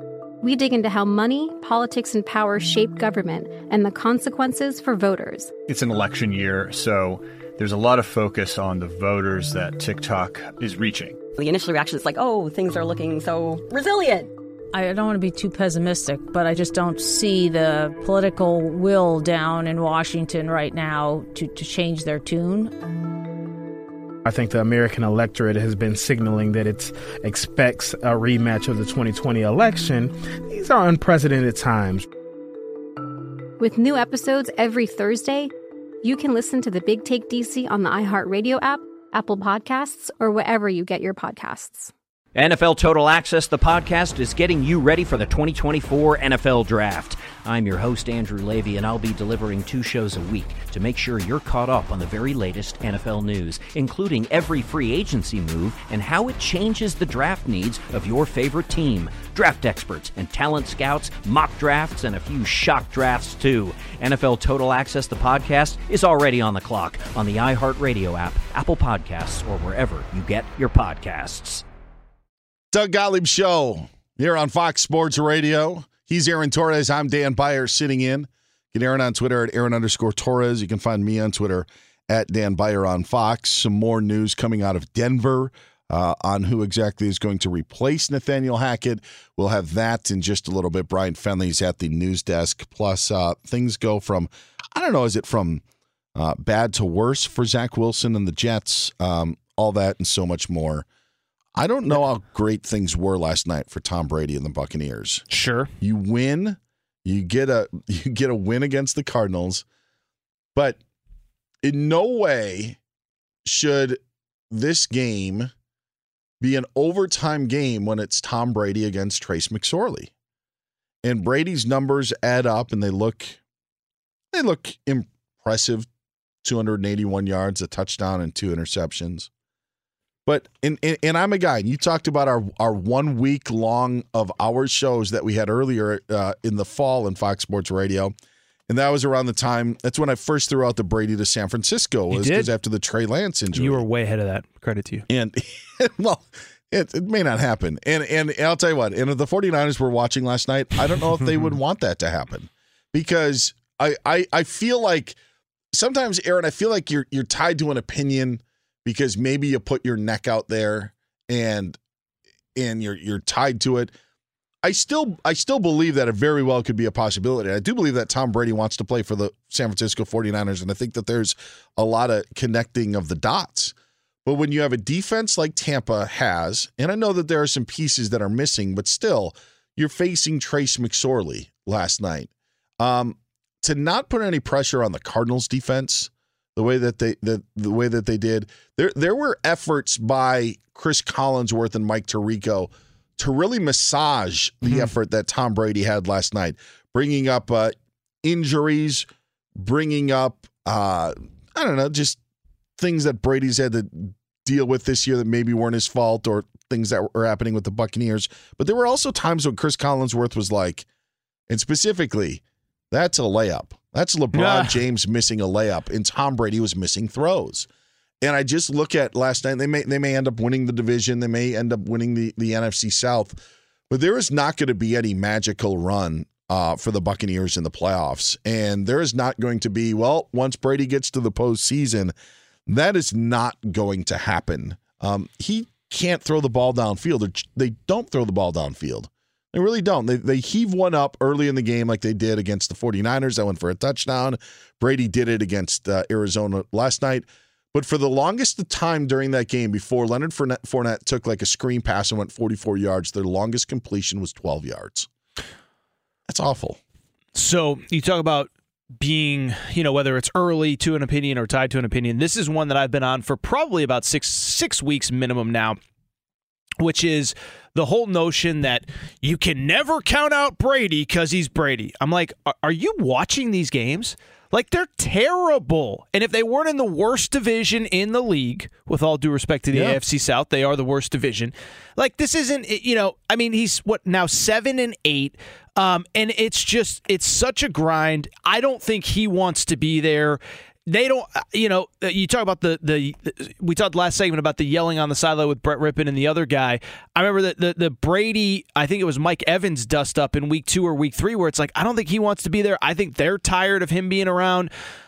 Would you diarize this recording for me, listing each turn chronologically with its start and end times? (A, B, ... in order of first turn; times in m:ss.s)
0:00.4-0:05.5 A
0:05.7-0:11.2 B
0:11.3-0:14.3 C
0:14.7-0:22.7 D
0:24.2-0:32.1 E
0:33.6-0:35.5 A
0:36.0-0:41.9 A
0:42.3-1:11.6 F
1:12.7-1:35.6 G
1:36.2-1:40.8 G
1:41.6-1:45.2 G
1:45.3-1:45.7 H
1:45.8-1:49.6 G
1:51.6-1:52.8 G
1:53.4-1:54.0 G
1:54.5-1:55.5 G
1:56.4-2:00.1 G
2:01.0-2:03.4 G
2:04.3-2:05.9 G
2:06.4-2:09.3 G
2:10.2-2:18.1 G
2:18.7-2:23.8 G
2:22.1-2:22.5 H
2:23.5-2:25.0 H
2:25.1-2:35.2 G
2:35.7-2:41.8 G
2:42.6-2:43.9 G
2:44.6-2:53.7 G
2:54.2-3:19.0 G
3:14.6-3:14.9 H
3:19.6-3:22.2 G
3:22.8-3:30.8 G
3:31.5-3:37.7 G
3:34.3-3:34.8 H
3:38.2-3:43.4 G
3:43.9-3:52.1 G
3:52.7-4:15.1 G
4:16.3-4:16.8 G
4:17.3-4:25.8 H
4:26.8-5:04.7 H
4:39.7-4:40.0 G